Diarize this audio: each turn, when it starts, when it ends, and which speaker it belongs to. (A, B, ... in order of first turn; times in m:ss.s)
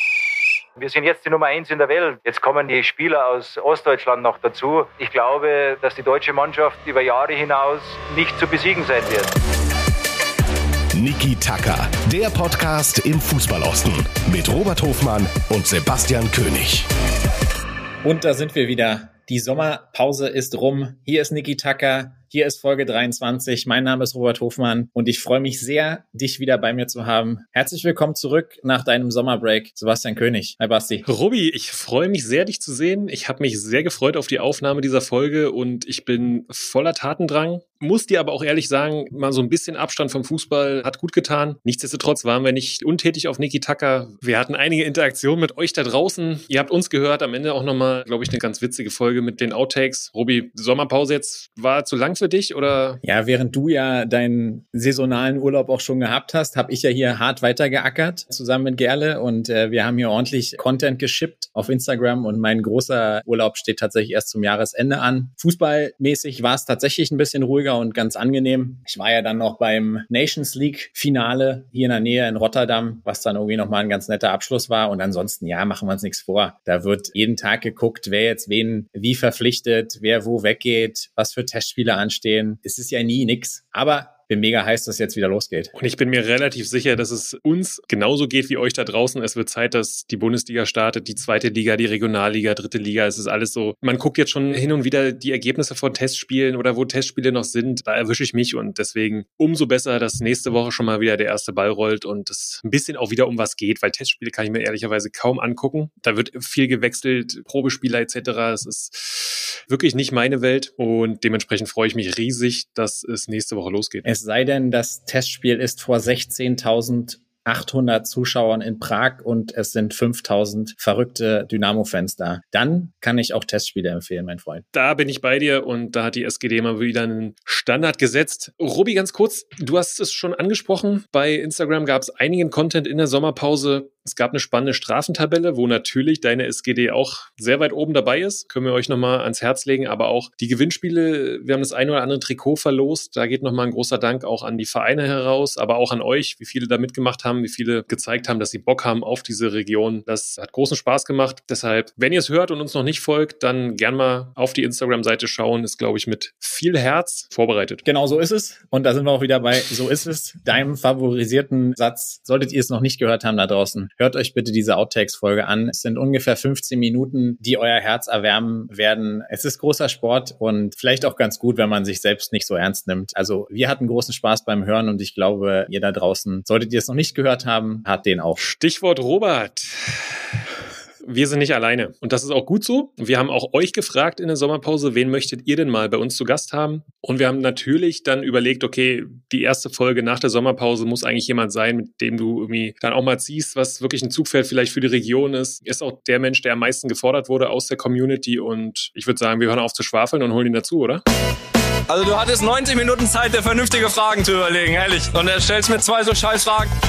0:00.8-0:09.4 A
0:11.0-0:16.9 B
0:18.0-0:31.0 C
0:31.1-0:53.0 D
0:53.0-1:25.7 C
1:25.7-1:54.1 D
1:54.0-2:04.6 C
2:04.7-2:37.8 D
2:37.8-2:58.4 C
2:58.4-3:00.2 D
3:01.0-3:21.0 D
3:21.9-3:26.7 E